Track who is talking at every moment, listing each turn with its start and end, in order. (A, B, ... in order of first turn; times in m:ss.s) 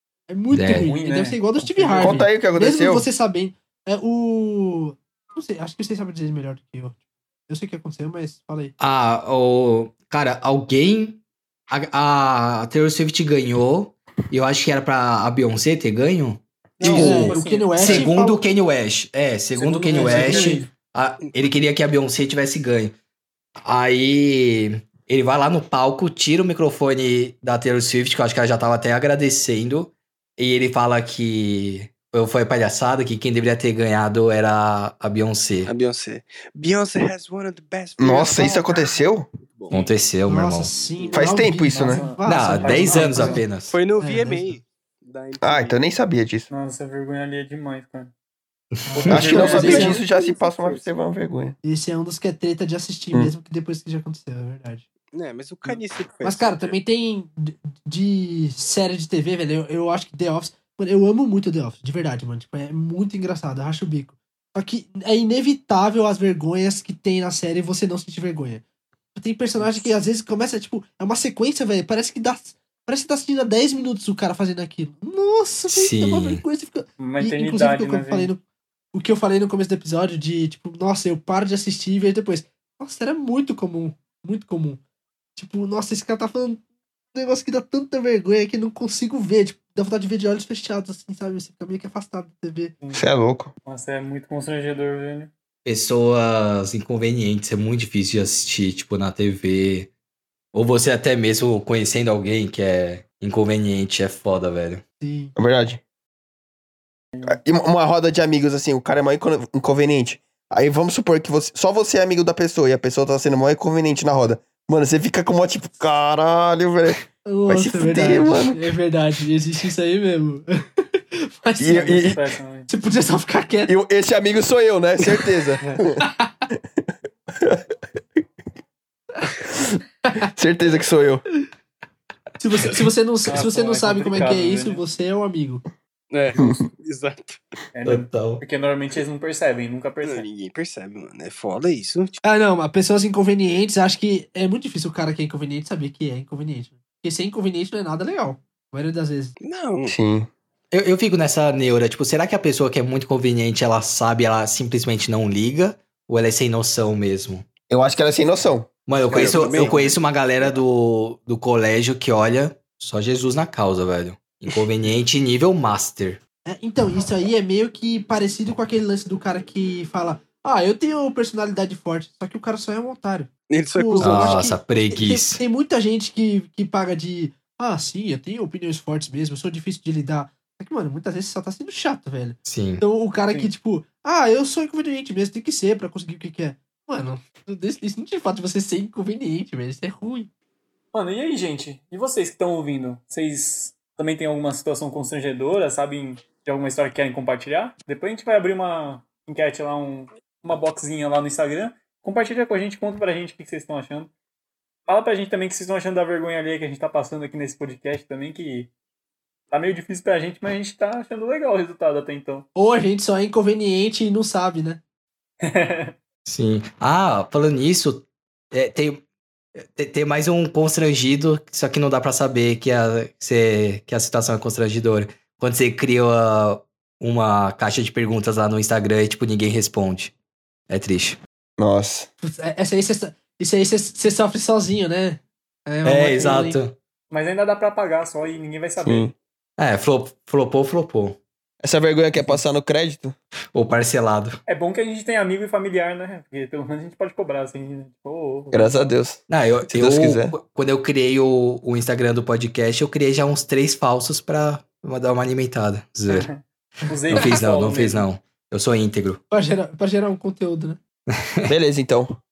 0:00.3-0:08.7 A
0:00.5-0:00.9 B
0:00.8-0:02.2 C
0:02.0-0:03.1 D
0:08.8-0:17.0 B
0:16.8-0:18.1 C
0:16.8-0:17.4 D
0:17.0-0:18.5 A
0:17.8-0:22.9 B
0:19.6-0:20.7 C
0:19.9-0:20.6 A
0:23.6-0:35.7 B
0:35.7-0:38.8 E
0:38.0-0:39.3 D
0:39.4-0:39.9 E
0:39.7-0:40.7 B
0:40.3-0:43.5 A
0:40.7-0:41.4 E
0:41.1-0:42.0 D
0:41.8-0:43.4 C
0:42.2-0:43.8 B
0:43.7-0:45.8 E
0:44.0-0:44.6 A
0:45.4-0:46.5 D
0:46.5-0:48.1 C
0:48.9-0:50.0 A
0:48.9-0:50.0 C
0:49.0-0:49.4 B
0:49.1-0:51.6 D
0:49.2-0:50.9 E
0:51.6-0:54.9 A
0:55.1-0:56.8 E
0:56.2-1:08.6 A
1:09.2-1:18.4 A
1:09.6-1:09.9 C
1:15.7-1:16.4 B
1:17.0-1:18.3 C
1:18.9-1:24.8 A
1:25.4-1:26.6 A
1:27.1-1:32.7 A
1:32.8-1:33.1 C
1:32.9-1:33.5 D
1:33.6-1:35.3 C
1:35.6-1:39.9 B
1:40.5-1:44.8 B
1:45.0-1:45.3 A
1:45.4-1:45.8 D
1:47.1-1:47.4 C
1:47.3-1:58.7 D
1:57.3-2:02.1 A
2:01.6-2:02.2 D
2:01.8-2:02.7 C
2:02.7-2:03.7 A
2:03.7-2:06.0 D
2:06.0-2:06.5 A
2:07.4-2:07.6 D
2:10.3-2:11.2 D
2:12.4-2:15.6 A
2:13.3-2:14.8 C
2:16.1-2:17.4 E
2:17.7-2:20.3 C
2:17.8-2:18.4 B
2:20.0-2:22.2 E
2:22.2-2:29.4 A
2:29.4-2:29.9 E
2:29.9-2:30.3 D
2:30.7-2:37.5 B
2:37.7-2:39.7 D
2:38.9-2:46.2 B
2:39.1-2:40.0 E
2:46.5-3:10.3 A
2:53.5-2:54.5 E
2:54.0-2:55.4 B
3:02.5-3:02.8 B
3:10.9-3:24.1 C
3:24.9-3:28.7 C
3:29.5-3:32.5 C
3:32.6-3:34.8 A
3:35.4-3:35.9 C
3:36.3-3:39.0 B
3:39.6-3:50.1 B
3:50.7-3:51.2 B
3:51.6-3:52.1 D
3:52.2-3:56.6 A
3:55.8-3:56.8 B
3:57.1-3:59.1 C
3:58.8-3:59.1 D
3:59.6-4:01.2 B
4:01.6-4:03.2 D
4:02.2-4:02.4 C
4:03.5-4:04.4 B
4:04.5-4:08.8 C
4:08.5-4:10.3 D
4:09.3-4:16.3 B
4:16.1-4:18.1 C
4:17.1-4:19.2 B
4:19.3-4:20.8 A
4:21.5-4:22.2 D